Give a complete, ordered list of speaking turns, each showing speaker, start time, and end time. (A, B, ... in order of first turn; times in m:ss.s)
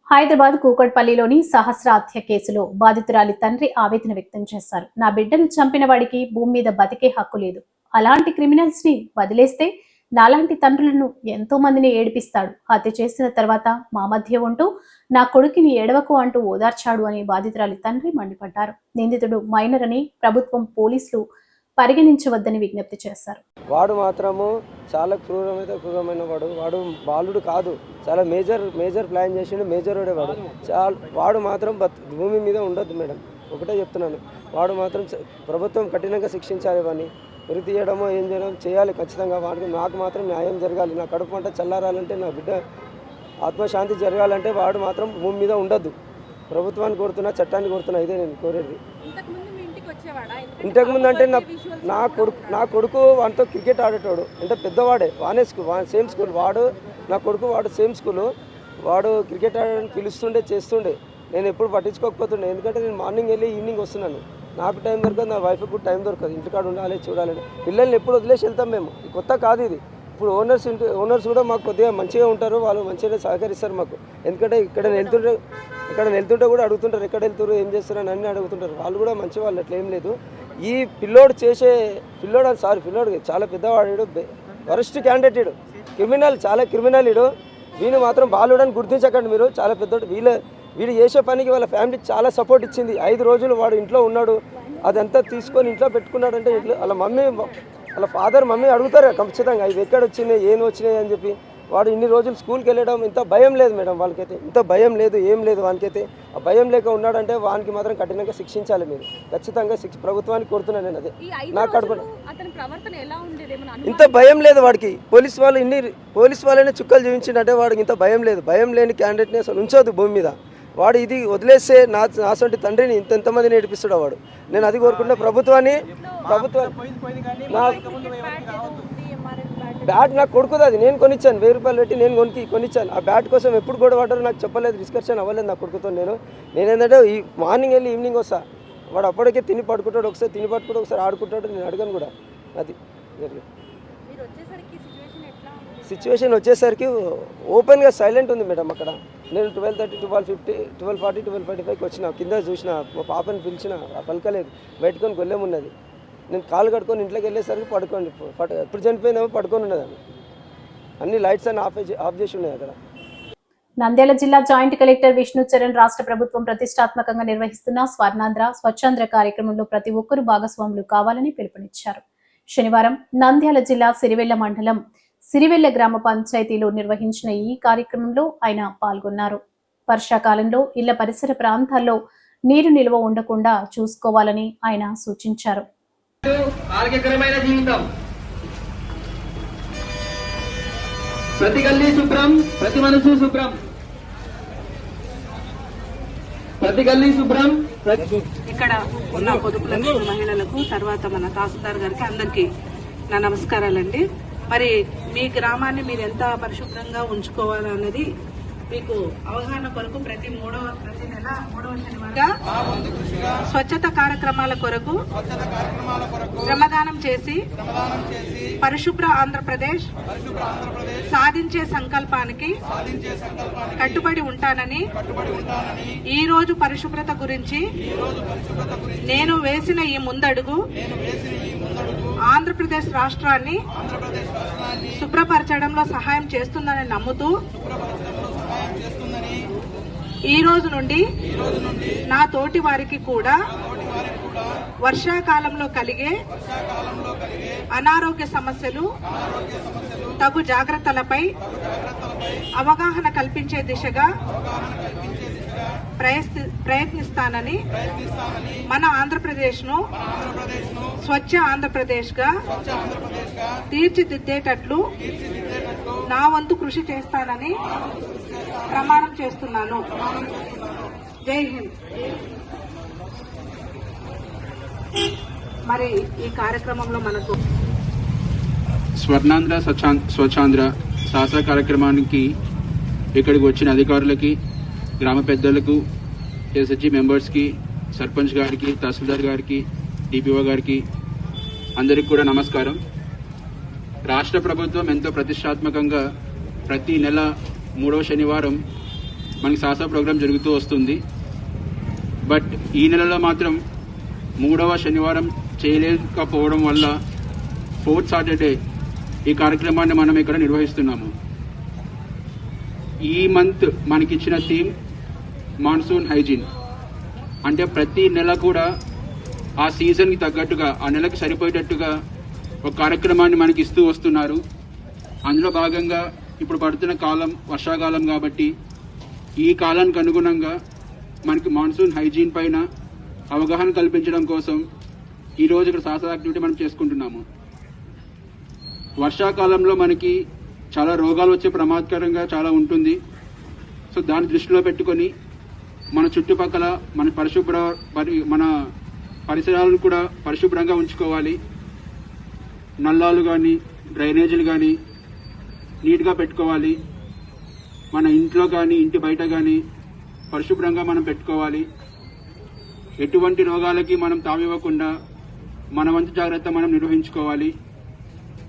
0:00.1-0:21.2 A
0:21.8-0:23.4 A
0:23.7-0:42.6 B
0:43.4-0:45.9 B
0:46.5-0:48.8 B
0:49.0-0:52.7 C
0:50.6-0:58.3 B
0:58.8-1:15.4 B
1:14.8-1:15.2 C
1:15.9-1:52.0 B
1:51.2-1:54.6 C
1:53.8-2:06.7 B
2:05.9-2:06.2 C
2:07.5-2:10.2 C
2:07.5-2:07.8 B
2:09.8-2:18.4 B
2:18.9-2:23.4 B
2:24.1-2:26.0 C
2:25.8-2:35.7 B
2:36.3-2:40.0 B
2:41.0-2:42.7 B
2:43.8-2:52.0 A
2:52.5-2:54.8 A
2:55.3-3:02.0 A
3:02.5-3:05.6 A
3:06.2-3:07.8 D
3:11.4-3:13.6 D
3:16.6-3:18.1 D
3:18.5-3:22.5 E
3:23.1-3:28.0 E
3:28.7-3:32.3 E
3:33.5-3:35.0 E
3:36.4-3:37.4 E
3:38.6-3:39.8 E
3:41.1-3:42.5 E
3:43.8-3:44.8 E
3:46.1-3:47.6 E
3:49.1-3:50.6 E
3:52.3-3:53.6 E
3:55.0-3:57.4 E
4:00.3-4:01.0 E
4:02.1-4:03.4 E
4:04.8-4:06.1 E
4:07.7-4:08.8 E
4:10.2-4:11.2 E
4:12.6-4:14.1 E
4:16.0-4:17.6 E
4:18.7-4:19.8 E
4:21.0-4:22.3 E
4:23.7-4:24.8 E
4:26.1-4:27.6 E
4:28.7-4:31.7 E
4:35.7-4:37.4 E
4:39.0-4:42.3 F
4:43.2-4:44.4 F
4:45.0-4:45.8 F
4:46.5-4:50.8 F
4:51.8-4:52.8 F
4:54.1-4:56.0 F
4:56.7-4:57.3 F
4:57.8-4:58.6 F
4:59.4-5:01.0 F
5:02.3-5:03.6 F
5:04.4-5:06.9 F
5:07.8-5:08.6 F
5:09.3-5:11.1 F
5:13.1-5:14.7 F
5:15.6-5:16.4 F
5:17.5-5:18.7 F
5:19.6-5:21.9 F
5:22.7-5:24.4 F
5:25.3-5:28.5 F
5:29.4-5:30.6 F
5:31.3-5:32.6 F
5:33.3-5:34.6 F
5:35.4-5:37.2 F
5:39.0-5:40.2 F
5:40.7-5:43.0 F
5:43.9-5:45.1 F
5:46.0-5:48.5 F
5:49.3-5:51.4 F
5:52.8-5:54.7 F
5:55.8-5:56.8 F
5:57.9-5:59.6 F
6:00.3-6:01.6 F
6:03.0-6:04.9 F
6:05.8-6:07.5 F